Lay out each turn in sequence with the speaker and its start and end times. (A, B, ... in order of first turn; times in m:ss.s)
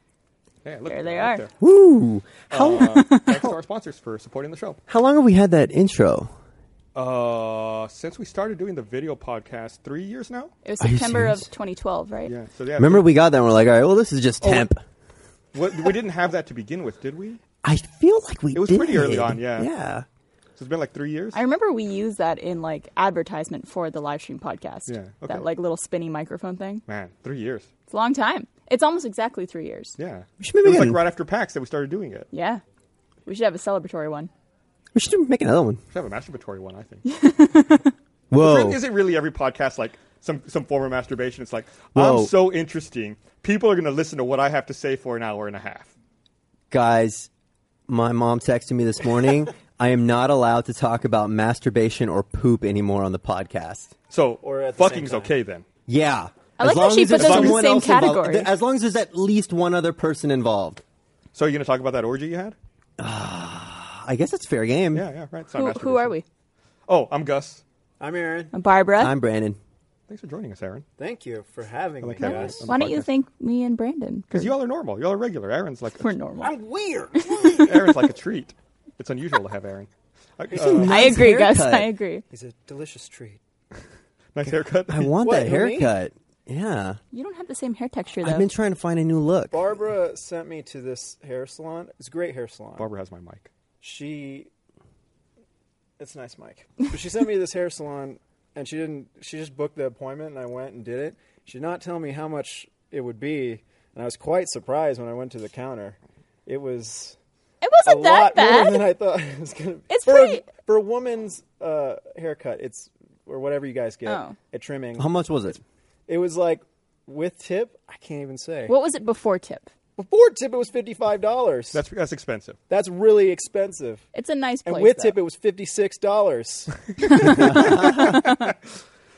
0:00.6-0:01.5 A
0:00.9-0:01.4 B
0:01.6-0:03.5 C
0:02.5-0:04.8 A
0:02.7-0:03.4 B
0:04.9-0:06.3 C
0:06.9-0:10.5 A
0:10.6-0:12.3 B
0:10.8-0:11.4 C
0:12.3-0:13.0 A
0:12.8-0:14.8 C
0:14.4-0:14.7 A
0:15.5-0:17.4 A
0:17.6-0:20.0 C
0:18.5-0:19.7 A
0:20.6-0:21.4 A
0:21.3-0:26.8 B
0:24.9-0:25.4 A
0:26.9-0:27.7 A
0:27.9-0:30.0 B
0:30.0-0:32.3 A
0:30.4-0:31.0 C
0:32.3-0:32.6 B
0:33.2-0:34.3 B
0:34.9-0:35.8 C
0:35.9-0:37.0 A
0:37.0-0:37.9 B
0:38.3-0:38.8 C
0:38.3-0:45.9 A
0:42.0-0:42.3 C
0:46.7-0:47.3 C
0:47.9-0:53.9 C
0:54.1-0:55.6 A
0:54.4-0:55.3 D
0:55.9-1:00.8 C
0:56.6-0:58.5 B
0:57.1-0:57.6 A
1:01.3-1:02.5 A
1:03.0-1:05.1 C
1:04.9-1:06.1 A
1:05.5-1:06.2 B
1:06.9-1:07.6 A
1:08.0-1:08.5 D
1:08.5-1:09.1 B
1:09.0-1:09.6 C
1:10.1-1:10.8 A
1:11.0-1:12.6 D
1:12.0-1:13.1 A
1:12.2-1:14.5 B
1:14.3-1:16.0 A
1:16.0-1:16.5 B
1:16.4-1:17.9 D
1:17.3-1:17.7 B
1:17.4-1:21.1 A
1:20.5-1:21.9 C
1:20.8-1:22.2 B
1:22.3-1:23.4 D
1:24.3-1:25.2 A
1:24.9-1:27.0 C
1:25.2-1:25.9 D
1:27.1-1:28.5 B
1:28.2-1:29.6 C
1:29.5-1:32.9 D
1:32.8-1:33.5 A
1:33.8-1:34.5 D
1:36.0-1:47.2 D
1:47.6-1:48.9 B
1:47.8-1:55.1 D
1:49.9-1:50.4 B
1:54.0-1:54.4 B
1:55.0-1:55.6 C
1:56.1-1:58.7 D
1:58.7-1:59.7 B
2:00.0-2:01.8 D
2:01.7-2:02.6 A
2:02.7-2:04.0 D
2:04.1-2:05.2 B
2:04.6-2:07.7 D
2:07.0-2:08.5 B
2:07.3-2:08.5 A
2:07.4-2:08.2 C